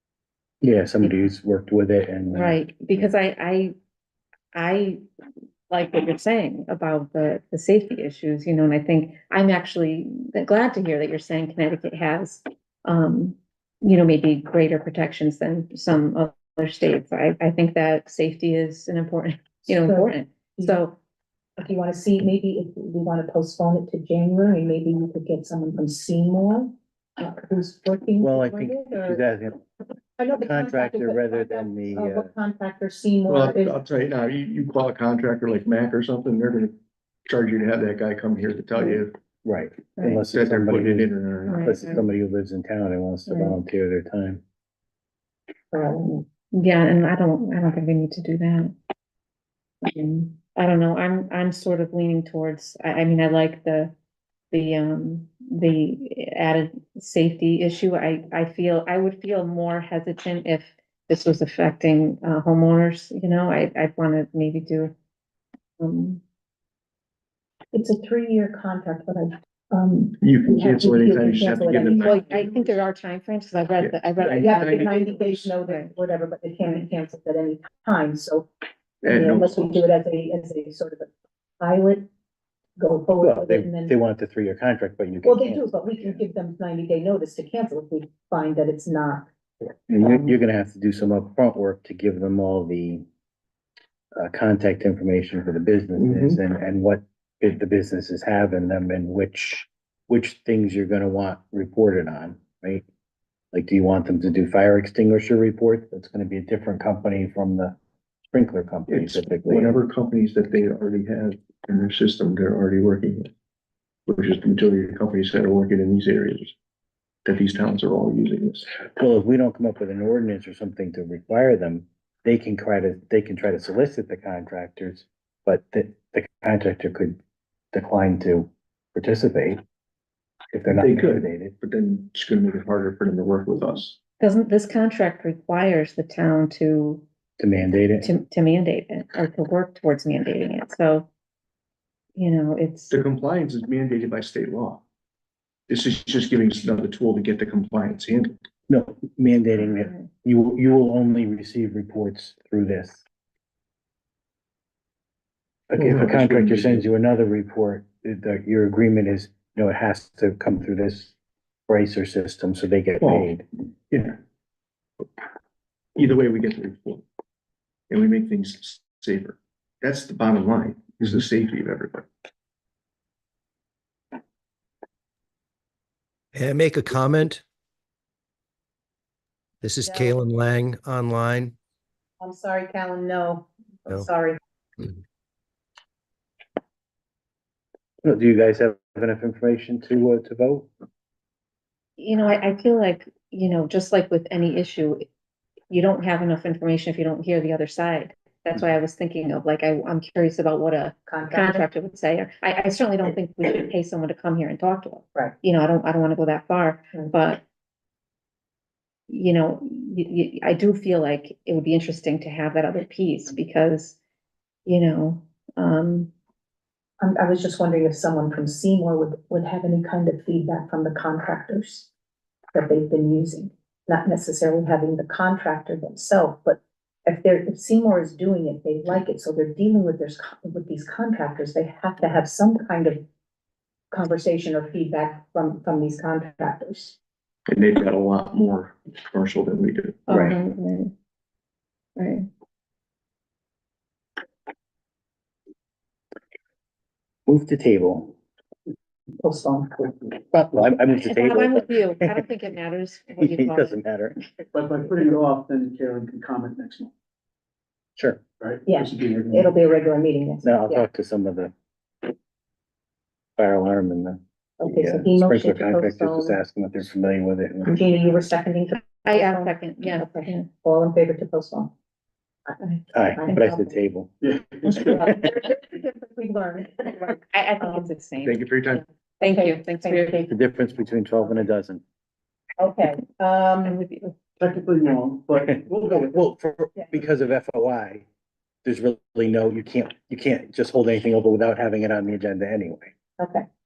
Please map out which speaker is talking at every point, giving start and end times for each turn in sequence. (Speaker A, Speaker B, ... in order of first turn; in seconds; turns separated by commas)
Speaker A: 0.6-3.1, Speaker B: 2.3-3.7, Speaker B: 4.5-5.0, Speaker B: 5.7-21.0, Speaker C: 19.7-20.8, Speaker C: 21.6-29.2, Speaker A: 28.2-29.6, Speaker C: 30.2-33.8, Speaker A: 30.4-32.3, Speaker D: 33.3-36.7, Speaker D: 37.2-39.1, Speaker A: 39.4-44.4, Speaker B: 40.0-40.2, Speaker D: 40.3-41.8, Speaker B: 41.5-42.0, Speaker B: 43.3-43.6, Speaker C: 45.7-46.2, Speaker B: 46.5-48.7, Speaker B: 49.8-53.9, Speaker B: 54.5-64.9, Speaker B: 65.8-66.2, Speaker C: 67.7-72.5, Speaker D: 70.2-72.7, Speaker B: 72.0-75.9, Speaker D: 73.8-75.3, Speaker C: 74.3-78.5, Speaker C: 79.0-81.1, Speaker D: 79.0-79.8, Speaker C: 81.6-82.1, Speaker C: 82.8-83.9, Speaker A: 83.2-85.8, Speaker C: 85.2-89.3, Speaker A: 89.7-93.0, Speaker A: 94.1-102.8, Speaker D: 96.0-96.4, Speaker A: 103.5-107.7, Speaker A: 108.3-109.8, Speaker D: 108.9-113.3, Speaker D: 114.1-116.5, Speaker D: 117.2-118.7, Speaker A: 119.0-127.2, Speaker A: 127.7-129.6, Speaker A: 130.5-131.5, Speaker D: 130.7-134.0, Speaker B: 134.2-137.0, Speaker A: 137.4-138.1, Speaker B: 138.0-141.1, Speaker B: 142.2-142.9, Speaker D: 142.9-144.8, Speaker D: 145.7-148.3, Speaker A: 148.7-153.0, Speaker B: 149.6-150.1, Speaker A: 155.7-161.1, Speaker D: 155.8-156.8, Speaker A: 161.7-163.4, Speaker D: 163.0-163.3, Speaker D: 163.9-164.2, Speaker D: 165.9-167.0, Speaker D: 167.9-172.1, Speaker E: 176.3-177.4, Speaker E: 179.6-181.5, Speaker C: 179.8-180.2, Speaker C: 182.2-184.4, Speaker A: 188.0-190.7, Speaker B: 192.0-195.1, Speaker B: 195.7-207.4, Speaker C: 201.1-201.6, Speaker B: 209.1-214.0, Speaker B: 214.7-216.1, Speaker C: 217.0-221.9, Speaker C: 222.5-233.0, Speaker C: 233.9-236.9, Speaker D: 237.5-240.0, Speaker B: 240.1-240.9, Speaker A: 240.1-240.3, Speaker B: 241.9-242.3, Speaker A: 247.3-248.1, Speaker C: 249.2-249.8, Speaker A: 250.2-252.2, Speaker B: 250.9-253.8, Speaker A: 253.2-254.2, Speaker F: 254.5-256.9, Speaker A: 258.0-258.2, Speaker F: 258.4-259.5, Speaker C: 258.6-260.8, Speaker A: 260.4-261.5, Speaker A: 263.4-267.8, Speaker C: 264.6-266.4, Speaker C: 267.7-271.7, Speaker B: 269.0-270.5, Speaker A: 272.9-275.0, Speaker C: 273.2-273.6, Speaker F: 274.2-274.8, Speaker C: 274.6-277.9, Speaker B: 277.3-278.4, Speaker D: 278.2-278.8, Speaker B: 279.2-280.3, Speaker C: 279.2-280.3, Speaker A: 280.3-281.8, Speaker C: 282.6-283.8, Speaker B: 283.6-284.1, Speaker F: 284.4-286.1, Speaker A: 285.6-288.0, Speaker A: 288.6-292.9, Speaker C: 293.2-293.4